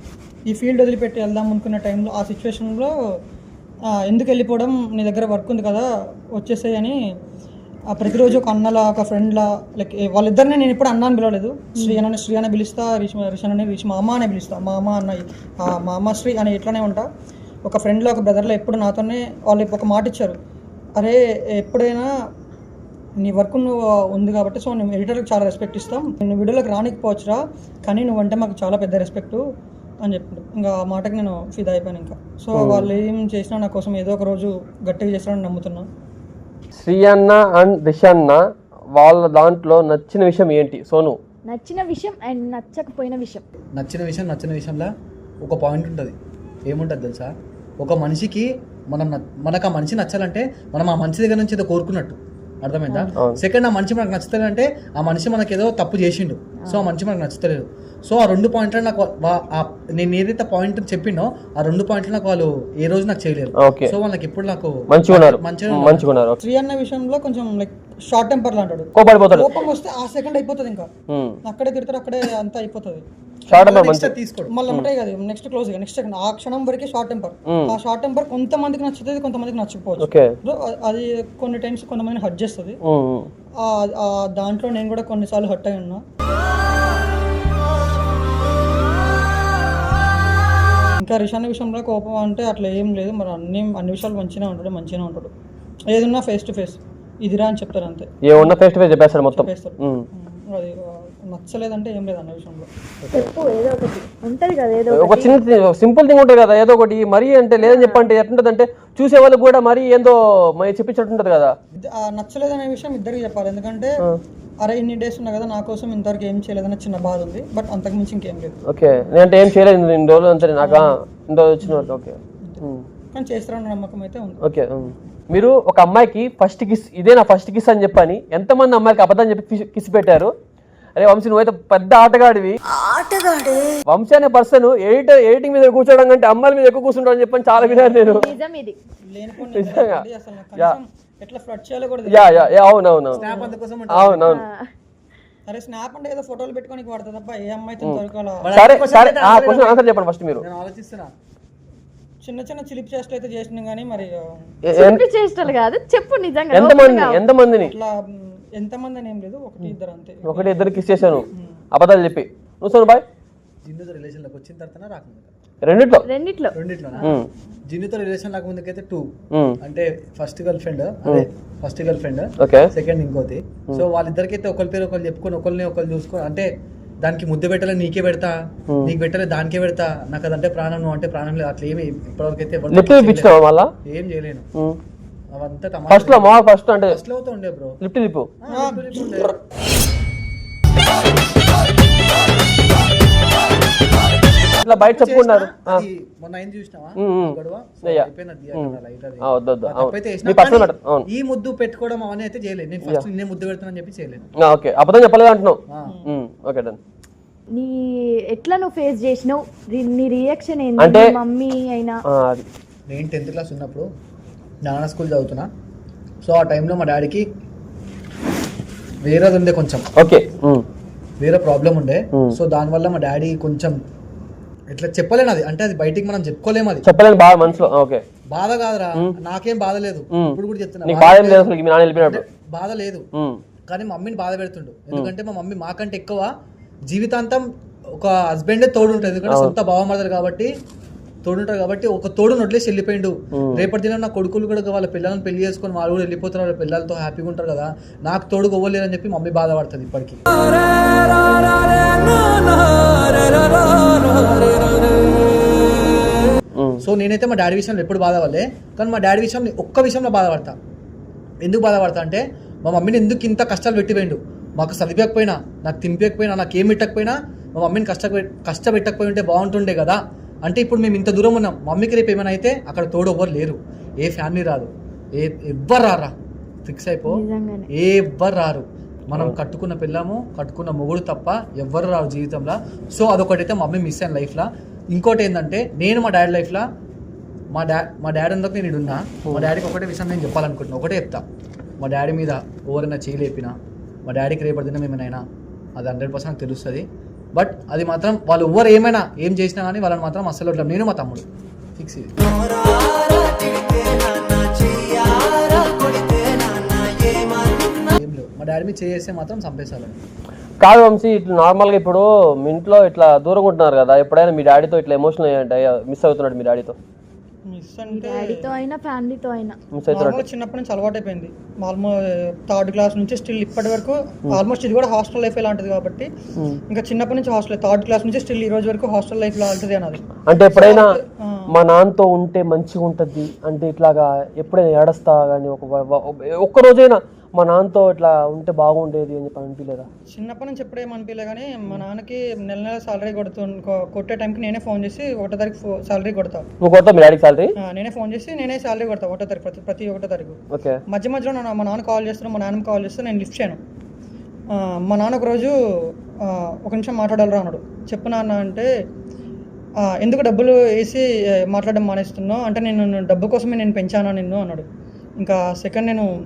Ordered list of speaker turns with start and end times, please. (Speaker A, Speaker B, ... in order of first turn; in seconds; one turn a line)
Speaker A: 0.5-2.9
Speaker A: 3.9-7.0
Speaker A: 7.9-17.1
Speaker B: 11.8-12.0
Speaker A: 17.6-20.4
Speaker A: 21.0-22.1
Speaker A: 23.2-29.4
Speaker A: 30.0-35.9
Speaker C: 32.5-32.9
Speaker C: 36.8-38.4
Speaker C: 39.0-41.2
Speaker B: 41.5-43.5
Speaker D: 43.8-44.9
Speaker D: 45.4-46.2
Speaker D: 46.7-66.1
Speaker B: 52.9-53.1
Speaker B: 56.6-56.9
Speaker C: 63.6-64.0
Speaker C: 64.9-66.4
Speaker A: 66.4-70.9
Speaker C: 69.0-69.5
Speaker C: 71.1-71.4
Speaker A: 71.5-73.1
Speaker C: 73.5-74.1
Speaker D: 73.5-74.5
Speaker A: 74.5-82.8
Speaker C: 77.5-77.8
Speaker C: 80.0-80.3
Speaker C: 82.8-83.3
Speaker A: 83.6-86.0
Speaker A: 91.0-95.3
Speaker A: 95.9-98.6
Speaker C: 98.2-100.1
Speaker A: 99.3-102.7
Speaker D: 103.0-103.3
Speaker B: 103.1-105.4
Speaker C: 104.9-111.5
Speaker B: 107.6-108.0
Speaker A: 111.8-114.0
Speaker A: 114.6-118.5
Speaker C: 118.7-122.9
Speaker A: 120.6-121.0
Speaker A: 121.6-121.9
Speaker A: 123.1-124.4
Speaker C: 124.4-130.3
Speaker C: 131.0-132.6
Speaker C: 133.9-138.2
Speaker A: 137.5-138.2
Speaker B: 138.1-138.8
Speaker A: 139.1-142.5
Speaker C: 139.5-140.1
Speaker C: 142.1-143.2
Speaker D: 143.1-144.4
Speaker C: 143.9-144.4
Speaker B: 144.3-144.7
Speaker A: 145.5-148.5
Speaker D: 148.4-149.8
Speaker C: 148.5-150.4
Speaker D: 150.4-151.1
Speaker A: 152.2-154.5
Speaker C: 154.6-155.0
Speaker B: 154.7-157.2
Speaker C: 156.5-157.7
Speaker A: 157.6-161.5
Speaker C: 160.2-163.0
Speaker D: 163.6-165.3
Speaker C: 165.6-166.1
Speaker B: 166.1-166.6
Speaker D: 166.5-167.1
Speaker C: 167.0-167.3
Speaker D: 167.7-176.5
Speaker C: 169.3-169.6
Speaker C: 172.4-172.7
Speaker D: 177.0-184.5
Speaker C: 182.7-183.7
Speaker D: 185.3-186.3
Speaker C: 185.9-187.0
Speaker D: 186.9-187.8
Speaker C: 187.8-188.3
Speaker D: 188.4-189.3
Speaker A: 188.5-189.2
Speaker D: 194.6-204.3
Speaker C: 194.7-195.8
Speaker C: 197.0-201.1
Speaker C: 204.4-206.8
Speaker D: 205.7-205.9
Speaker B: 207.5-212.0
Speaker C: 210.8-211.1
Speaker C: 212.1-212.5
Speaker D: 212.9-213.9
Speaker D: 214.7-215.5
Speaker D: 216.2-217.3
Speaker D: 219.1-219.9
Speaker C: 220.0-220.6
Speaker D: 221.2-223.8
Speaker D: 224.7-226.9
Speaker C: 226.8-228.0
Speaker D: 228.3-233.1
Speaker C: 230.1-232.2
Speaker C: 233.2-233.4
Speaker D: 233.7-236.3
Speaker D: 236.9-237.4
Speaker D: 238.0-240.5
Speaker C: 239.3-239.5
Speaker D: 241.2-250.2
Speaker C: 243.3-243.7
Speaker D: 254.3-254.6
Speaker C: 256.6-256.8
Speaker D: 256.8-260.6
Speaker D: 261.4-276.1
Speaker D: 276.6-286.7
Speaker B: 277.1-277.7
Speaker D: 287.5-291.2
Speaker D: 291.8-295.2
Speaker D: 295.8-301.3
Speaker D: 301.8-302.1
Speaker D: 307.9-310.0
Speaker C: 310.6-316.8
Speaker A: 317.5-318.5
Speaker B: 317.9-319.6
Speaker C: 319.7-320.2
Speaker A: 319.9-326.1
Speaker A: 326.7-331.5
Speaker C: 330.3-331.0
Speaker C: 331.5-339.9
Speaker A: 340.1-346.5
Speaker C: 346.6-347.5
Speaker A: 347.6-353.6
Speaker C: 350.5-350.8
Speaker A: 354.5-355.6
Speaker A: 356.2-358.7
Speaker A: 359.8-364.7
Speaker A: 365.2-366.1